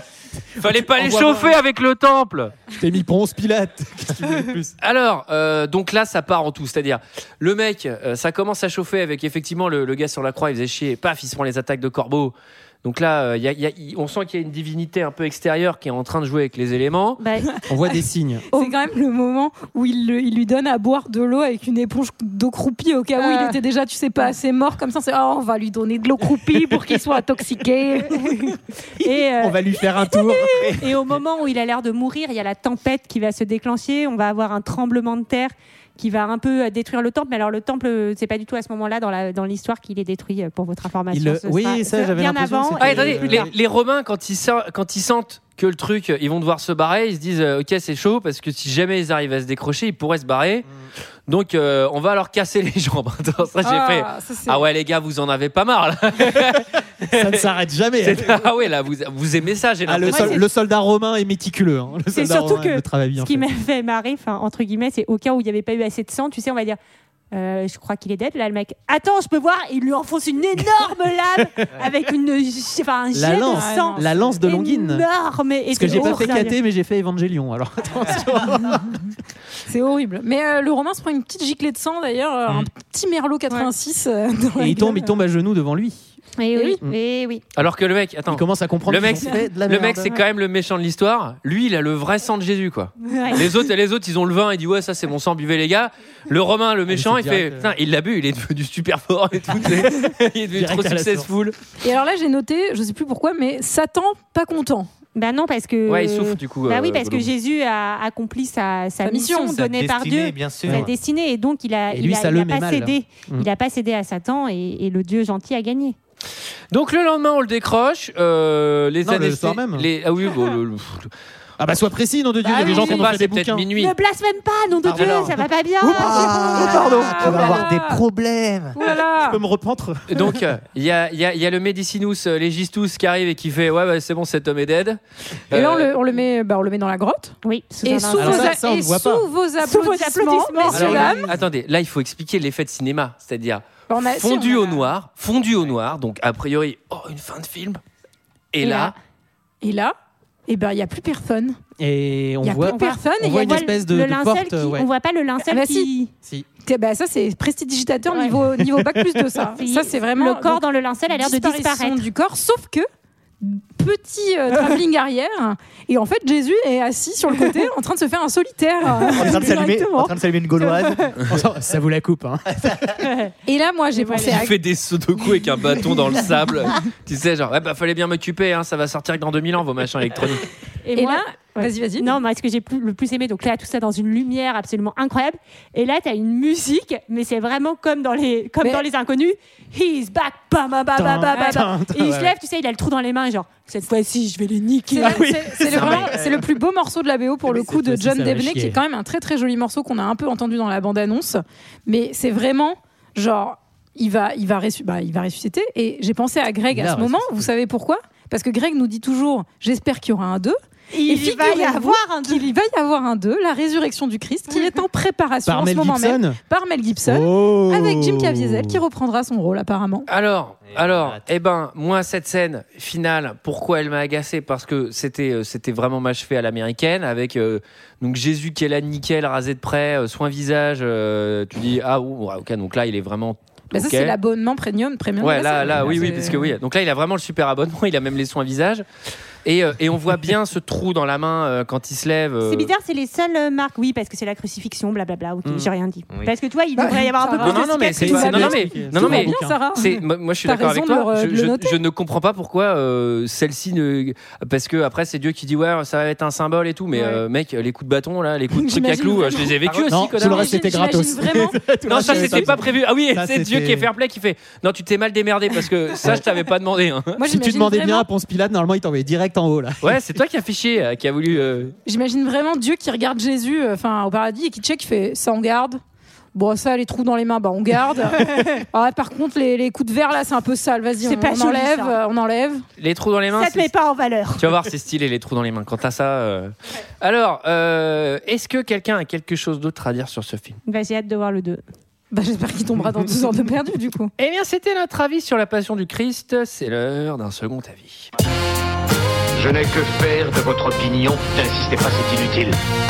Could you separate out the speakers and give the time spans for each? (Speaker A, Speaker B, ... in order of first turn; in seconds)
Speaker A: 0.6-2.5, 4.8-17.2, 42.8-50.6, 51.3-57.5, 58.0-60.4, 87.5-101.5, 105.9-107.3, 116.7-121.1, 122.5-123.9, 130.1-135.9, 140.7-147.8, 148.5-148.9, 174.2-180.5, 195.7-196.1, 220.1-234.2, 235.2-238.8, 239.4-242.7, 247.4-260.6, 261.9-267.2, 269.8-271.7, 282.8-283.7, 284.4-290.6, 294.2-298.1
Speaker B: 0.7-1.6, 2.7-4.7, 17.7-18.4, 29.4-30.9, 41.1-43.5, 57.1-58.5, 59.9-63.4, 73.1-75.0, 75.7-79.1, 84.6-86.1, 88.3-90.1, 96.9-97.7, 100.5-101.3, 111.9-113.5, 119.0-119.9, 121.6-123.7, 125.8-127.7, 129.2-130.4, 138.1-139.2, 140.7-141.1, 151.8-154.9, 171.2-172.9, 190.9-192.3, 195.1-196.4, 197.5-198.8, 206.7-207.5, 215.4-216.4, 217.0-218.8, 235.8-236.2, 245.4-245.7, 247.9-249.6, 259.9-263.9, 267.3-270.0
Speaker C: 17.2-17.6, 23.2-23.6, 28.1-43.5, 60.1-60.5, 62.1-66.8, 67.3-76.6, 86.4-87.4, 93.0-93.5, 105.1-116.0, 122.4-123.1, 123.7-127.6, 137.4-138.6, 139.6-141.3, 148.6-148.9, 152.6-156.1, 158.1-158.3, 159.5-162.0, 173.0-173.3, 173.9-174.4, 180.8-195.9, 210.9-212.4, 242.4-248.5, 278.2-278.6, 281.0-282.0, 283.3-284.6, 290.6-291.6
Speaker D: 18.5-28.5, 53.6-54.6, 73.3-74.4, 75.9-76.2, 79.7-85.1, 101.8-104.9, 109.0-109.6, 126.6-128.0, 128.7-129.4, 135.5-141.3, 143.9-144.8, 149.6-149.9, 150.5-151.6, 152.4-153.7, 155.5-155.9, 156.7-162.8, 163.4-170.9, 173.4-174.6, 180.9-182.2, 194.9-220.1, 233.7-236.4, 246.8-251.8, 258.5-259.6, 260.1-262.6, 267.2-268.1, 271.9-275.8, 276.3-282.6, 292.1-294.1
Speaker E: 109.5-110.9, 124.8-125.3, 126.2-128.8, 169.0-171.1, 220.7-221.2, 259.6-259.9
Speaker F: 299.4-302.6